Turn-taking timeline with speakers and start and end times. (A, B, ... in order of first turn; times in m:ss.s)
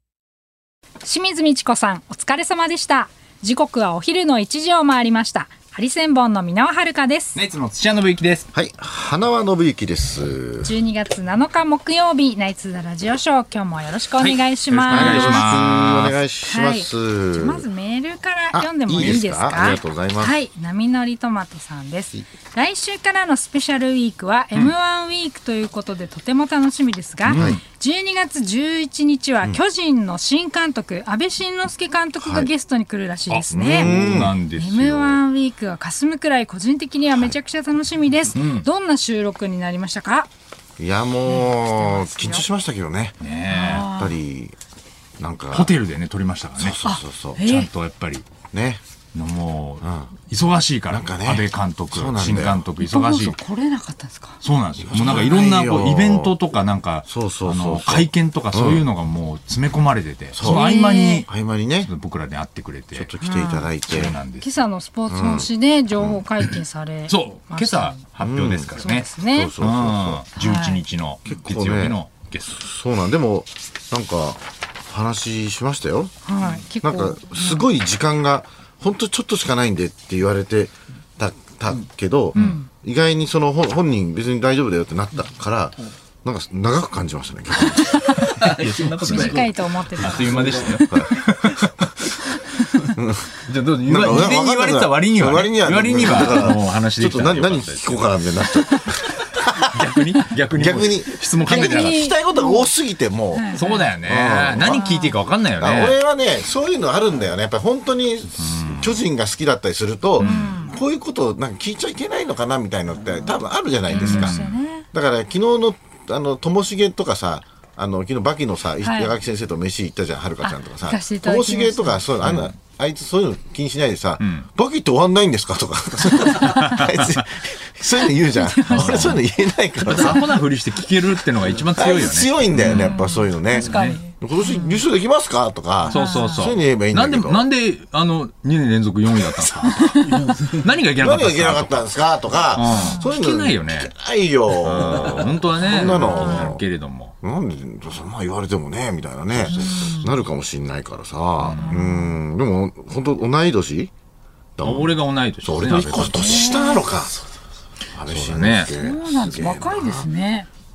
0:01.0-0:07.4 A
0:07.3-0:08.5 B
0:08.5-0:10.7 C
0:10.6-0:15.6 A
0:14.2-0:16.2 B
0:14.9-0:17.6 C
0:16.4-0:34.0 A
0:18.5-0:20.4 C
0:27.2-0:27.6 C
0:27.3-0:27.6 B
0:32.2-0:32.5 C
0:33.3-0:35.2 B
0:33.5-0:34.4 C
0:34.5-0:40.3 A
0:38.3-0:38.6 B
0:40.8-0:44.5 C
0:41.3-0:42.4 A
0:43.2-0:43.9 B
0:43.5-0:44.2 A
0:45.2-0:45.7 C
0:45.5-0:46.8 B
0:46.6-0:47.5 C
0:46.8-0:47.7 A
0:47.4-0:48.3 B
0:48.5-0:48.8 C
0:49.1-0:53.4 B
0:49.8-0:50.1 C
0:50.9-0:52.6 C
0:52.8-0:54.4 A
0:54.4-1:01.3 B
0:54.8-0:56.4 C
0:57.1-0:58.9 C
1:00.3-1:00.7 C
1:00.4-1:01.2 A
1:01.2-1:01.9 C
1:01.8-1:03.1 B
1:02.9-1:04.2 C
1:03.2-1:03.7 A
1:03.9-1:04.4 B
1:04.4-1:08.0 A
1:05.1-1:06.2 C
1:07.1-1:09.1 B
1:08.2-1:10.2 C
1:08.8-1:09.5 A
1:09.6-1:12.6 B
1:10.4-1:10.8 A
1:11.3-1:16.1 C
1:16.2-1:17.7 A
1:16.8-1:28.0 C
1:22.4-1:22.7 A
1:27.8-1:32.0 B
1:28.2-1:31.3 A
1:30.8-1:31.1 C
1:32.2-1:32.7 A
1:33.0-1:33.3 C
1:33.4-1:38.1 B
1:33.8-1:39.9 C
1:39.6-1:42.0 B
1:40.5-1:45.1 C
1:41.4-1:42.7 A
1:43.3-1:43.9 A
1:43.5-1:46.0 B
1:44.6-1:45.1 A
1:45.6-2:10.3 C
1:48.4-1:49.0 B
1:50.2-1:50.6 B
1:50.2-1:50.8 A
1:53.9-1:54.9 A
1:53.9-1:54.6 B
1:58.8-1:59.1 A
2:00.4-2:02.0 A
2:02.2-2:02.5 B
2:04.2-2:04.4 B
2:06.4-2:07.1 B
2:08.3-2:09.2 A
2:08.7-2:09.2 B
2:09.8-2:13.0 B
2:11.7-2:17.5 C
2:12.6-2:14.8 A
2:13.5-2:14.0 B
2:15.9-2:21.9 B
2:15.9-2:16.5 A
2:19.6-2:20.2 A
2:21.0-2:26.6 C
2:22.5-2:23.9 B
2:22.7-2:23.0 A
2:24.6-2:27.1 B
2:25.6-2:26.5 A
2:27.2-2:33.9 C
2:29.4-2:29.7 B
2:29.5-2:30.1 A
2:31.4-2:31.9 B
2:31.6-2:32.1 A
2:34.6-2:37.1 C
2:34.6-2:36.6 B
2:35.9-2:36.9 A
2:37.9-2:40.1 C
2:38.0-2:38.7 B
2:38.7-2:40.5 A